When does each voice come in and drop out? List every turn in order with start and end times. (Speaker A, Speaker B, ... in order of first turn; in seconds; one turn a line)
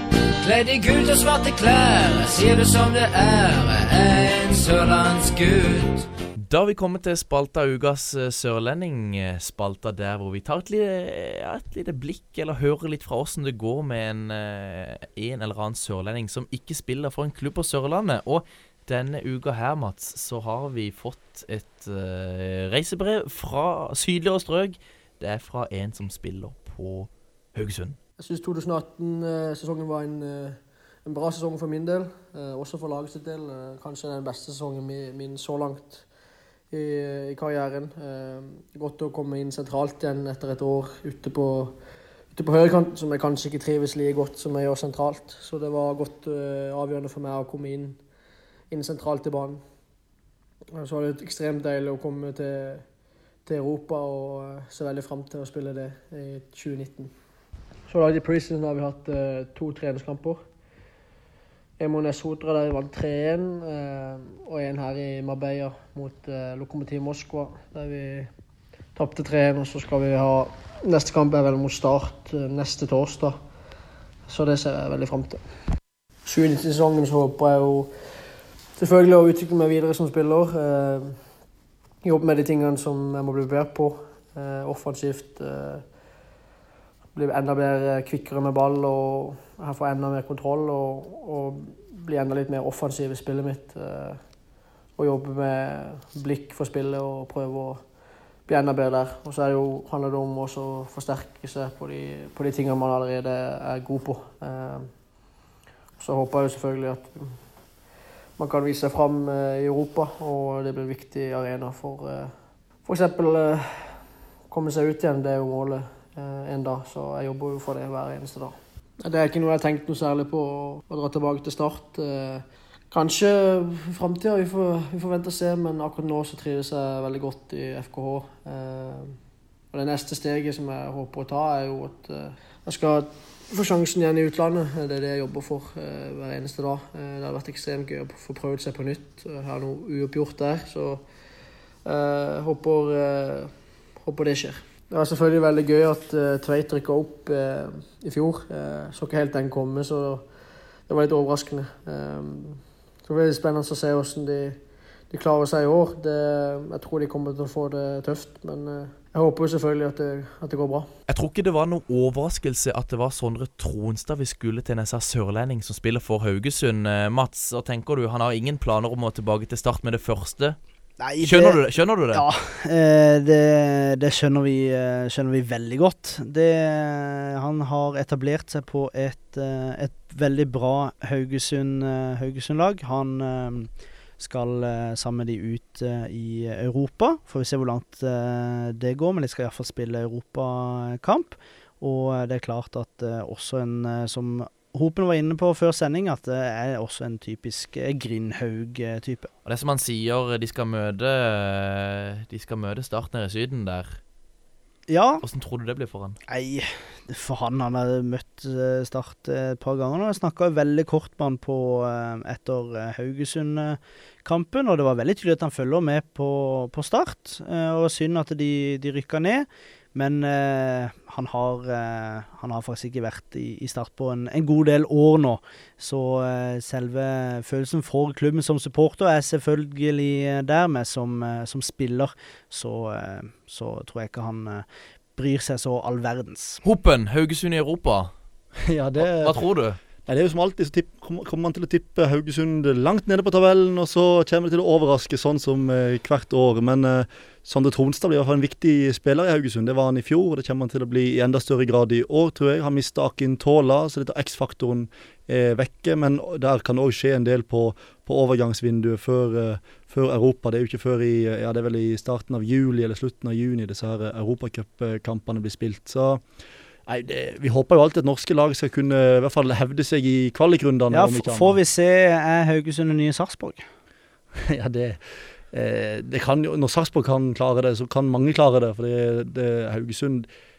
Speaker A: 0.4-6.1
Speaker B: 6.4-28.0
Speaker C: 28.2-36.0
Speaker C: 36.7-41.8
Speaker C: 42.3-48.0
Speaker C: 48.7-49.6
Speaker C: 50.8-52.8
Speaker C: 53.5-57.1
Speaker C: 57.9-60.4
Speaker C: 61.8-68.3
Speaker C: 68.9-73.4
Speaker C: 74.3-75.4
Speaker C: 76.2-77.9
Speaker C: 78.8-81.2
Speaker C: 82.0-85.8
Speaker C: 87.1-94.2
Speaker C: 94.9-97.8
Speaker C: 98.5-104.9
Speaker C: 106.0-107.4
Speaker C: 108.4-129.2
Speaker C: 129.7-141.0
Speaker C: 141.8-150.3
Speaker C: 150.9-160.9
Speaker B: 161.1-170.6
Speaker D: 171.0-171.6
Speaker B: 171.2-172.2
Speaker D: 172.1-199.3
Speaker B: 199.4-204.0
Speaker D: 204.9-205.2
Speaker B: 205.2-206.2
Speaker D: 206.3-234.6
Speaker D: 235.2-236.6
Speaker B: 236.6-238.1
Speaker E: 238.7-239.4
Speaker B: 239.0-239.8
Speaker E: 240.1-266.2
Speaker E: 266.9-271.6
Speaker D: 270.9-273.6
Speaker E: 274.4-280.3